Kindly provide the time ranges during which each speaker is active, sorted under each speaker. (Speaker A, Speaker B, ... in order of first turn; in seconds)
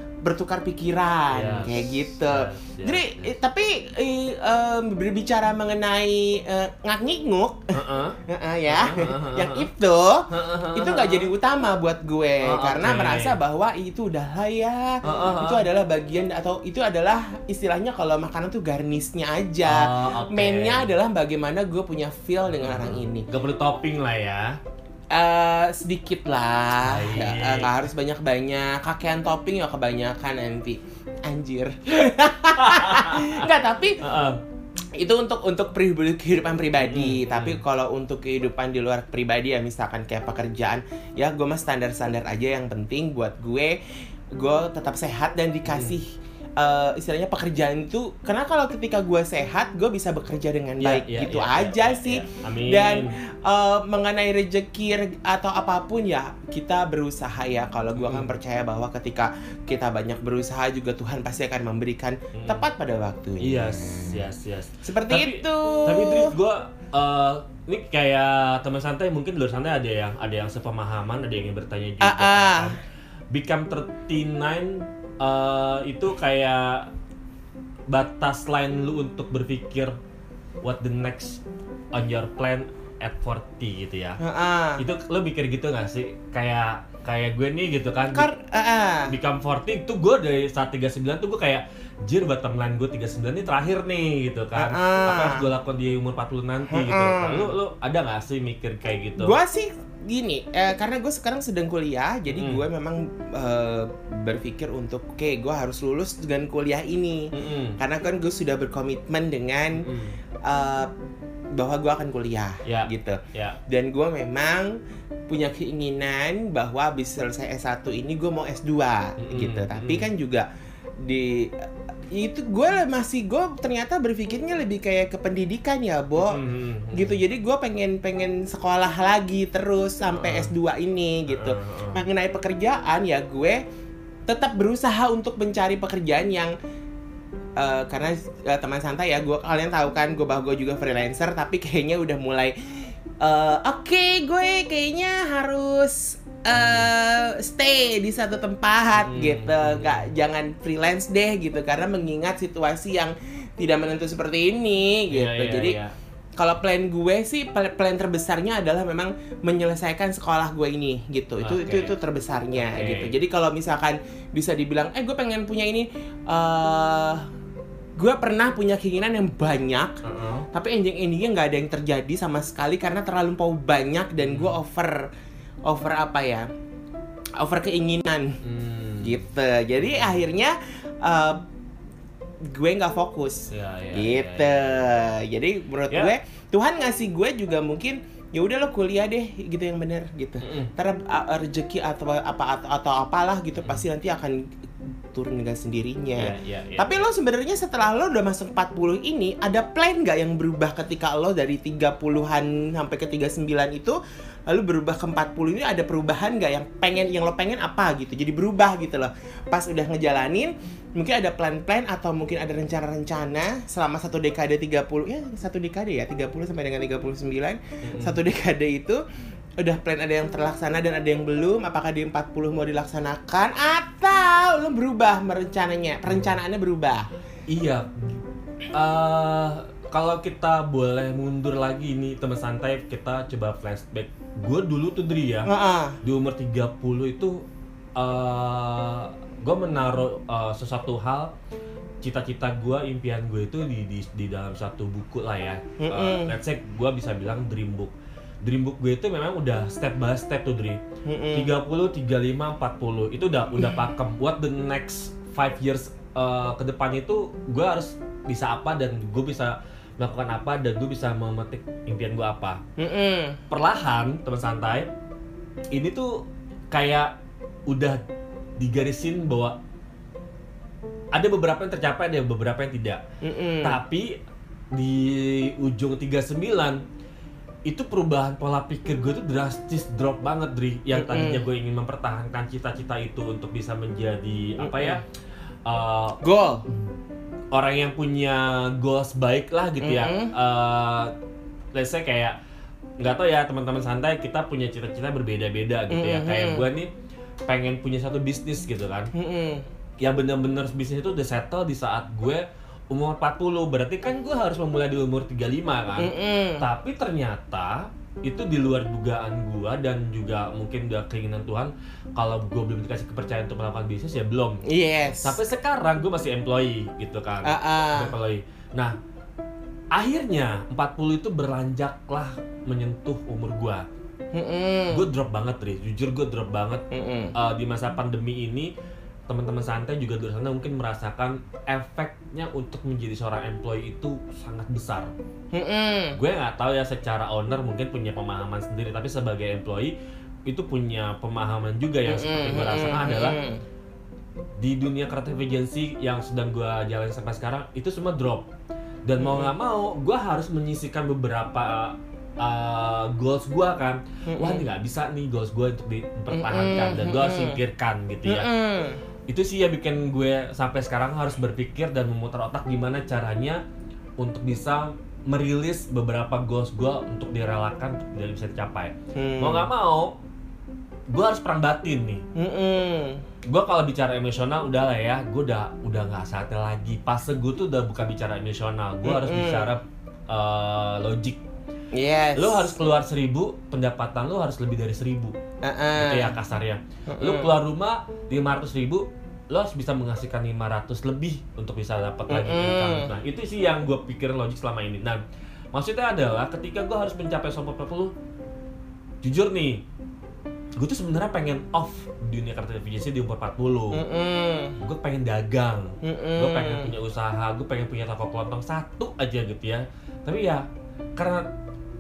Speaker A: 0.2-7.7, 8.3-23.2, 25.1-34.0, 35.0-43.8, 44.4-64.2, 64.8-66.3, 72.0-72.8, 84.2-84.8, 88.1-89.1, 94.6-95.5, 96.7-97.5, 99.2-109.8, 110.5-110.9, 111.5-114.8, 115.3-120.5, 121.0-126.4, 126.9-133.6, 134.3-136.5, 137.6-155.8, 156.4-167.3, 168.0-170.0, 170.5-175.1, 175.7-176.4, 177.4-178.4, 179.0-181.4, 182.5-194.4, 195.1-219.0, 219.6-227.1, 235.5-236.0, 245.8-246.3, 251.1-251.5, 262.8-263.4, 273.2-273.8, 280.9-281.4, 284.6-285.0, 286.2-286.7, 289.8-290.3, 295.9-296.7, 299.1-299.6, 306.0-306.7, 314.6-315.4, 317.4-318.1, 324.3-325.1, 326.9-327.3, 335.5-336.2, 342.1-343.6, 349.2-349.5, 354.3-354.7, 356.3-357.6, 358.2-359.0, 369.1-369.7, 372.4-373.2, 379.0-379.7, 381.9-382.7, 385.6-386.4, 387.1-387.5, 392.3-393.1, 403.9-404.8, 406.0-406.9
Speaker B: 1.3-3.3, 7.7-9.7, 10.3-11.3, 12.4-13.4, 15.0-15.7, 19.6-20.9, 22.6-24.6, 26.8-27.8, 32.6-33.5, 34.0-34.4, 36.8-37.6, 45.7-46.0, 50.8-53.1, 58.0-58.3, 62.3-62.7, 63.4-72.8, 73.3-76.9, 77.9-80.0, 80.6-81.4, 81.9-84.2, 84.8-88.3, 89.1-99.3, 102.3-102.6, 107.3-107.8, 109.8-110.2, 112.7-113.6, 119.2-120.1, 126.2-127.2, 130.1-130.5, 131.3-132.0, 146.5-146.9, 149.0-150.1, 155.1-155.9, 161.4-162.0, 162.6-163.1, 170.0-170.4, 174.2-174.6, 178.4-179.2, 179.8-180.2, 183.5-184.8, 190.4-190.7, 196.2-197.1, 217.8-218.2, 226.1-226.4, 227.5-228.2, 228.7-235.5, 236.0-237.4, 238.0-241.3, 242.0-250.8, 251.3-262.6, 263.5-264.9, 265.7-267.1, 267.7-268.0, 268.6-269.6, 271.1-273.0, 273.6-274.1, 274.7-276.8, 277.7-285.0, 285.7-286.8, 287.5-291.1, 291.7-292.4, 293.0-296.9, 297.5-299.1, 300.0-314.6, 315.2-319.0, 319.9-323.9, 324.9-326.8, 327.3-328.7, 329.3-335.1, 336.2-339.9, 340.5-343.4, 344.6-348.5, 349.1-358.5, 359.3-363.6, 364.2-370.2, 371.1-372.2, 373.4-381.4, 382.4-385.4, 386.0-395.2, 395.7-398.1, 399.2-399.8, 400.8-404.0, 404.8-410.6, 411.2-411.5